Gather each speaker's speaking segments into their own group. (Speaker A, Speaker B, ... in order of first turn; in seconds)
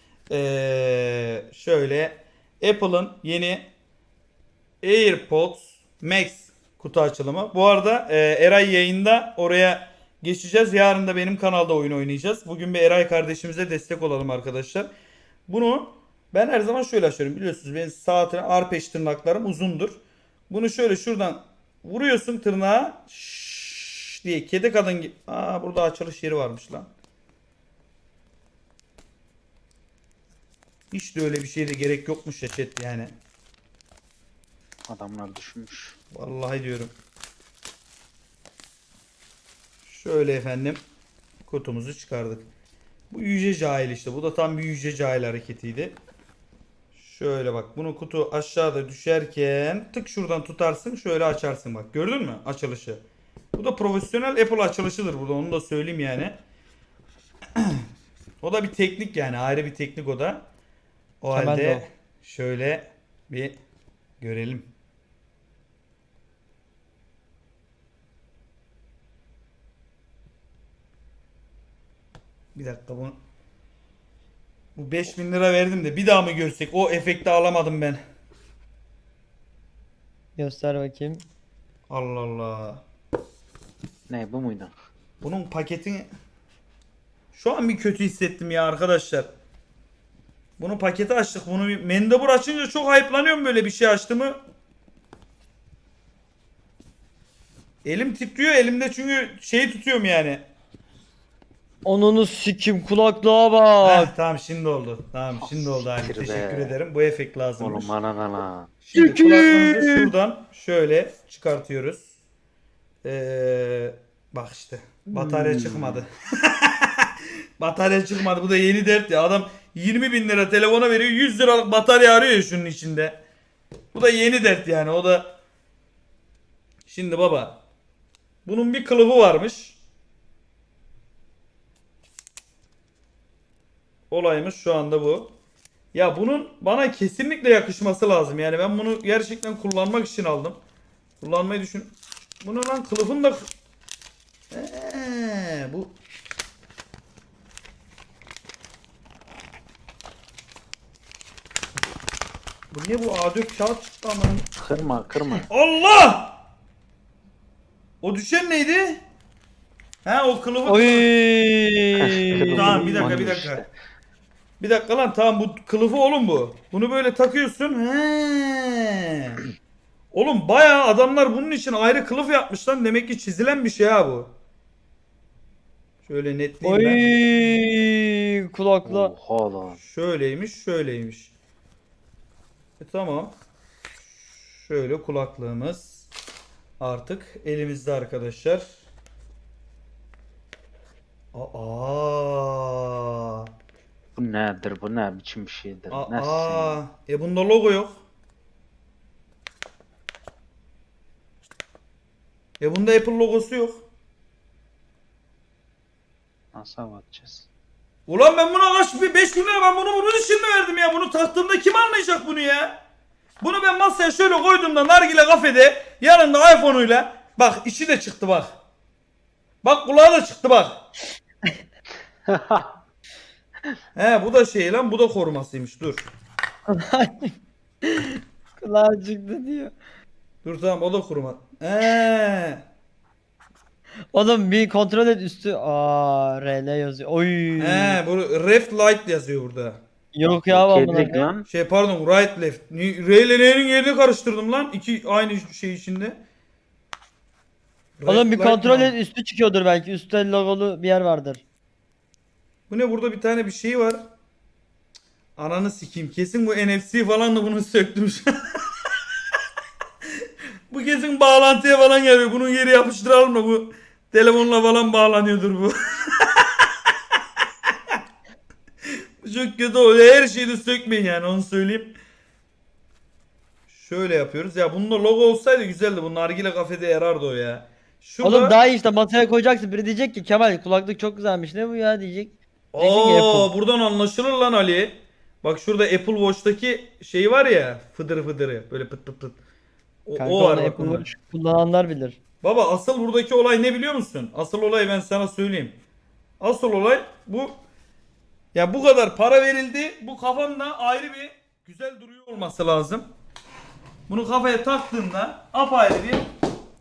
Speaker A: 0.3-3.7, 4.8-14.9, 15.5-20.0, 20.5-26.9, 30.9-33.1, 36.1-36.9, 39.9-40.8, 41.4-42.5, 43.1-46.0, 46.9-53.0, 53.5-56.4, 57.5-57.8, 58.4-60.5, 61.2-63.6, 64.2-64.7, 72.5-73.2, 74.8-78.0, 81.9-82.8, 85.2-86.1, 87.3-89.3, 90.6-94.4, 97.8-100.4, 103.8-107.9, 108.8-112.1, 113.0-123.2, 123.9-125.3, 126.9-127.6, 128.4-129.8, 134.1-135.3, 135.9-140.6, 141.2-143.5, 144.5-145.9, 152.7-154.5, 155.5-156.4, 158.0-159.0, 160.0-161.1, 162.5-163.6, 164.6-169.4, 170.1-174.3, 176.0-177.0, 179.8-181.3, 182.8-183.3, 184.4-186.1, 186.8-188.6, 191.3-193.5, 195.9-198.0, 202.6-203.8, 208.1-212.8, 213.4-218.6, 219.6-220.8, 223.9-226.1, 230.4-232.6, 237.6-239.8, 241.5-246.2, 248.0-248.9, 252.7-254.0, 255.4-258.3, 260.7-266.5, 269.2-271.9, 273.7-278.6, 282.7-289.4, 290.1-291.1, 292.4-295.8, 296.4-297.6, 298.5-303.1, 304.1-306.3
Speaker B: 34.9-36.0, 84.1-84.7, 105.4-106.8, 107.6-108.7, 115.1-116.0, 154.6-155.4, 162.0-163.7, 178.8-179.8, 194.2-196.8, 206.5-207.5, 222.3-222.7, 240.5-241.5
Speaker C: 61.3-61.8, 80.4-81.2, 101.8-104.1, 109.0-110.1, 160.7-163.2, 176.6-179.1, 226.7-227.3, 227.8-229.7, 234.1-238.0, 240.1-241.3, 248.1-251.4, 278.2-283.5, 290.1-292.2